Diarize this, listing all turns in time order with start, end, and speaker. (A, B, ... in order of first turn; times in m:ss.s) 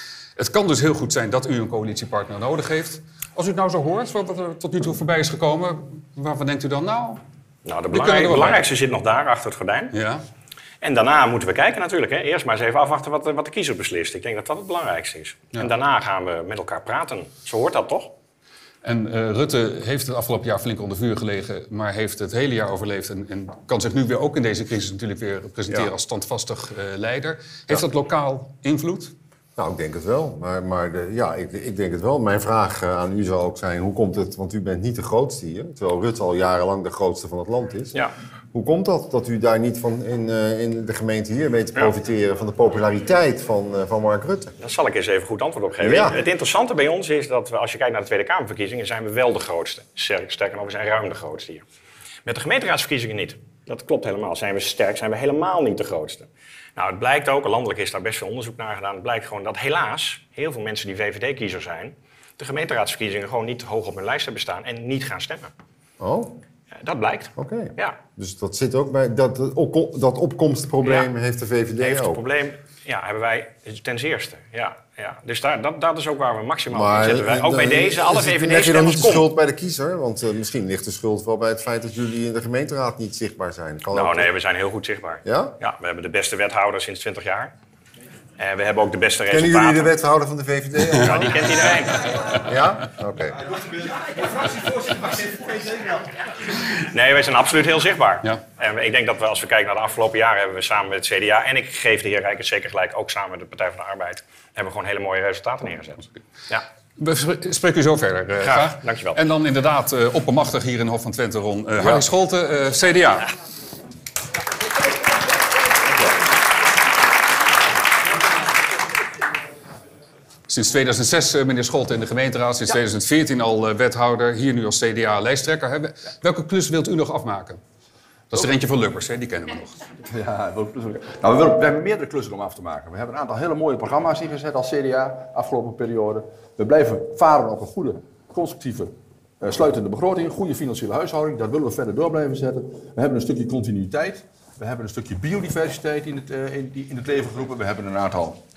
0:00.4-0:07.2 A
0:07.7-0:09.9 B
0:07.9-0:08.6 A
0:09.9-0:10.2 A
0:10.8-0:18.1 B
0:18.8-0:29.1 A
0:29.6-0:38.0 C
0:38.5-0:44.5 C
0:44.6-0:51.6 B
0:45.8-0:46.2 C
0:52.3-1:05.5 B
1:06.0-1:06.3 C
1:06.8-1:08.0 B
1:07.4-1:12.2 C
1:10.8-1:11.1 B
1:11.8-1:19.3 B
1:16.7-1:24.3 C
1:23.9-1:27.5 B
1:25.2-1:25.6 C
1:28.4-1:29.9 B
1:29.3-1:31.6 C
1:31.0-1:32.1 B
1:32.4-1:33.4 C
1:36.9-1:46.6 B
1:47.0-1:53.3 A
1:48.4-1:49.2 B
2:00.5-2:07.6 A
2:08.3-2:09.8 A
2:10.1-2:28.4 D